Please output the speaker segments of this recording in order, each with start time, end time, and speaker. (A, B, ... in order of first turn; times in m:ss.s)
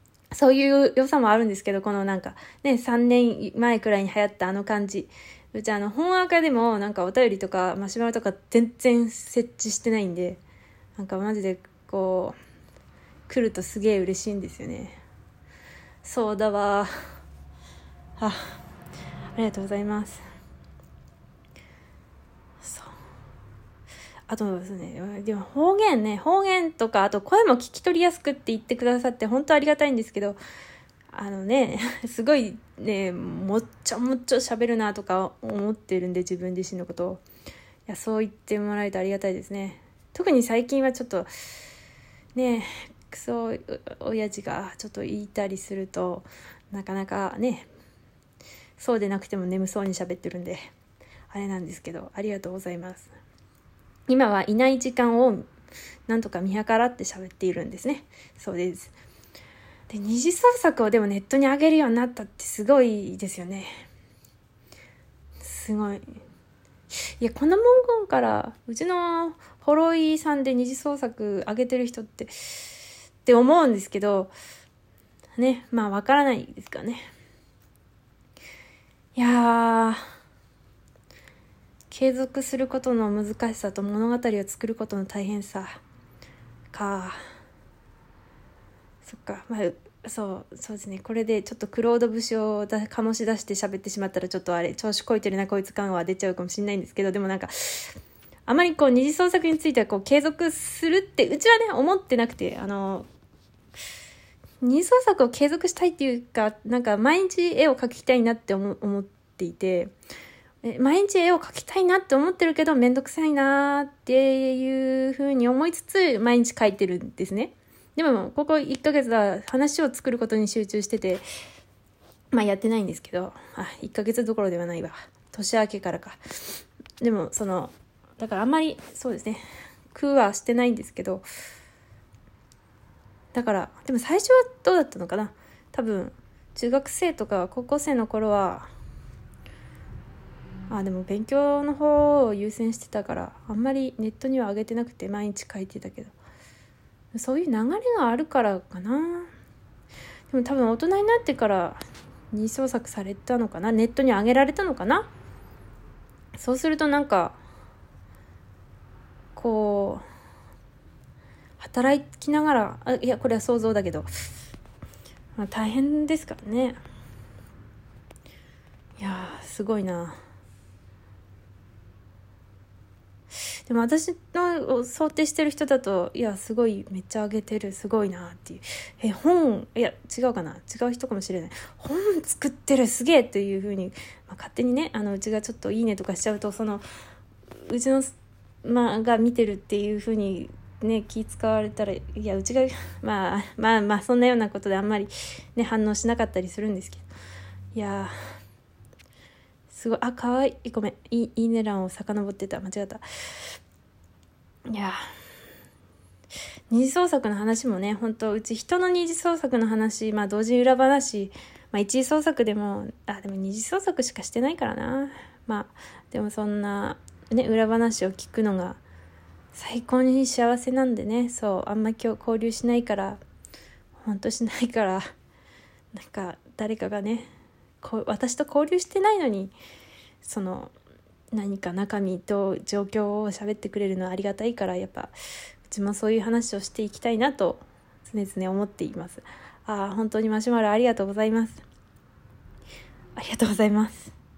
0:00.3-0:10.4 A
0:11.0-0:12.4 A
0:13.3-0:15.0 A
0:16.0-0:16.9 A
0:18.2-0:18.5 A
0:19.3-0:20.2 A
0:22.6-0:22.9 A
0:24.3-0:30.4 A
0:31.1-0:37.2 A
0:37.9-0:41.3 A
0:42.3-0:47.7 A
0:48.8-0:50.6 A
0:51.3-0:53.1 A
0:54.1-0:55.5 A
0:56.1-0:58.9 A
0:59.9-1:03.8 A
1:05.4-1:06.0 A
1:07.2-1:12.7 A
1:13.2-1:14.3 A
1:15.4-1:17.0 A
1:19.1-1:20.0 A
1:21.9-1:25.8 A
1:26.7-1:27.2 A
1:29.0-1:37.9 A
1:38.4-1:43.0 A
1:44.6-1:49.9 A
1:50.6-2:01.2 A
2:02.3-2:06.2 A
2:07.0-2:11.2 A
2:13.3-2:18.7 A
2:20.7-2:26.1 A
2:27.1-2:29.3 A
2:30.3-2:35.1 A
2:36.3-2:37.4 A
2:39.3-2:40.0 A
2:41.6-2:44.1 A
2:45.4-2:46.8 A
2:49.0-2:50.2 A
2:53.7-3:06.8 A
3:07.6-3:08.1 A
3:08.6-3:17.0 A
3:17.7-3:18.1 A
3:19.7-3:23.5 A
3:24.7-3:25.0 A
3:26.7-3:38.8 A
3:39.5-3:43.2 A
3:44.0-3:45.0 A
3:45.9-3:47.3 A
3:47.8-3:49.5 A
3:50.2-3:50.7 A
3:51.3-3:55.1 A
3:55.6-4:01.6 A
4:03.2-4:04.1 A